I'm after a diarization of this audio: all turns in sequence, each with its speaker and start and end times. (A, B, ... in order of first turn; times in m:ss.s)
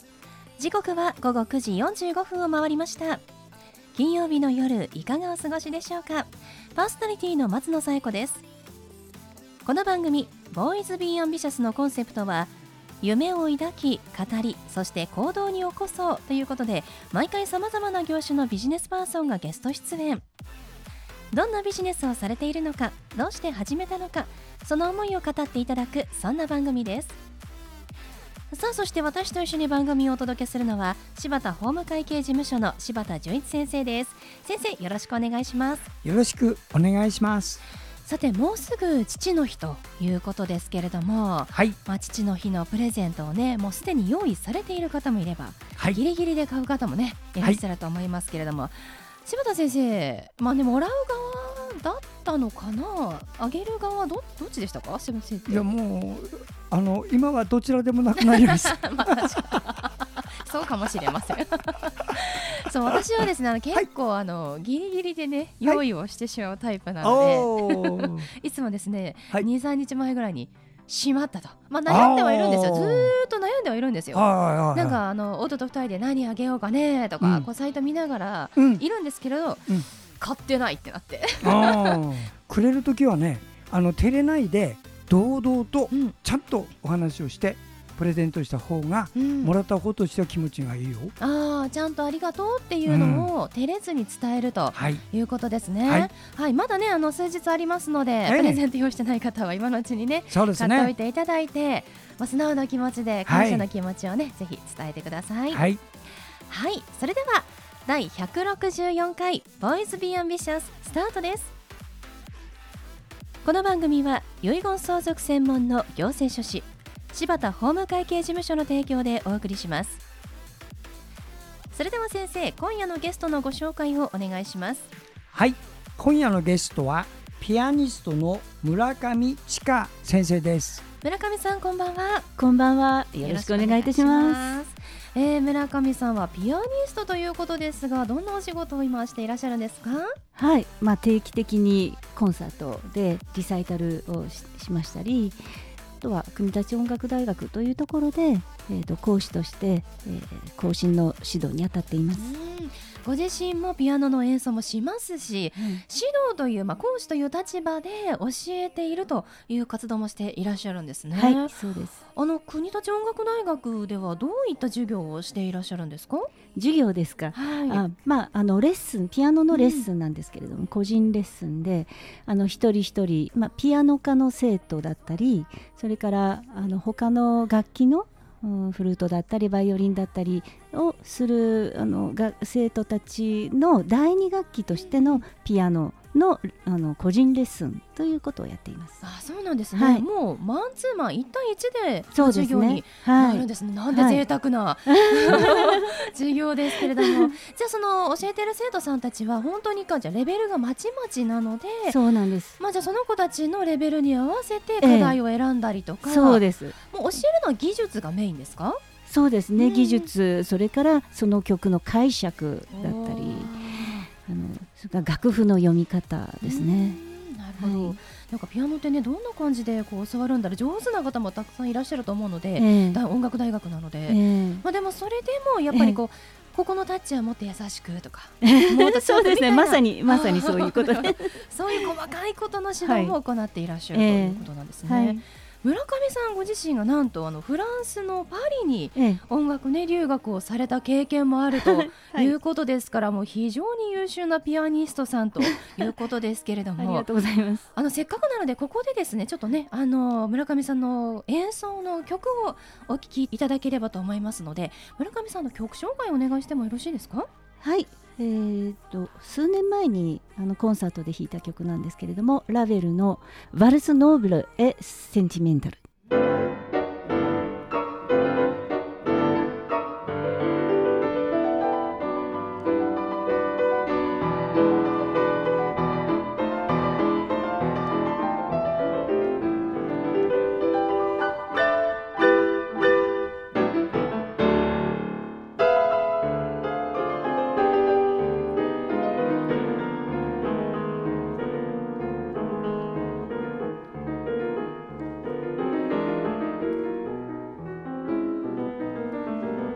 0:00.6-0:03.2 A
0:03.9-0:08.4 A
0:09.6-0:20.2 A
0:21.3-0:27.2 A
0:28.5-0:35.9 A
0:36.0-0:37.6 B
0:38.0-0:55.6 A
0:55.5-0:59.4 B
0:58.2-1:22.0 A
1:07.0-1:08.3 B
1:11.9-1:13.1 B
1:14.1-1:15.0 B
1:17.2-1:17.5 B
1:18.6-1:18.8 B
1:21.4-1:31.1 B
1:25.9-1:26.2 A
1:29.1-1:29.5 A
1:31.2-1:45.6 A
1:32.8-1:33.3 B
1:34.7-1:35.0 B
1:35.8-1:36.1 B
1:38.2-1:38.6 B
1:40.3-1:40.9 B
1:43.2-1:43.7 B
1:45.5-1:45.8 B
1:46.5-1:51.5 A
1:53.4-2:00.0 A
2:01.7-2:04.9 A
2:05.3-2:10.8 B
2:11.0-2:12.3 A
2:12.4-2:14.6 C
2:13.2-2:20.1 A
2:20.4-2:25.4 C
2:26.0-2:32.3 C
2:32.1-2:41.5 A
2:35.6-2:35.8 C
2:41.1-2:42.0 C
2:42.1-2:46.3 A
2:46.5-3:09.0 C
2:47.3-2:47.8 A
2:49.5-2:49.8 A
3:04.8-3:05.2 A
3:09.0-3:22.0 A
3:09.7-3:10.0 C
3:12.1-3:14.2 C
3:14.8-3:15.9 C
3:16.7-3:17.3 C
3:21.9-3:22.6 C
3:22.6-3:28.8 A
3:24.8-3:25.2 C
3:26.0-3:26.8 C
3:29.1-3:37.0 C
3:29.6-3:30.1 A
3:32.7-3:34.1 A
3:36.4-4:07.1 A
3:37.6-3:38.0 C
3:42.6-3:43.0 C
3:44.1-3:44.6 C
3:45.7-3:46.0 C
3:48.4-3:51.9 C
3:52.8-3:53.2 C
3:53.9-3:55.2 C
3:58.9-3:59.2 C
4:01.5-4:02.3 C
4:05.4-4:05.8 C
4:06.8-4:07.6 C
4:07.7-4:17.3 A
4:17.6-4:25.8 C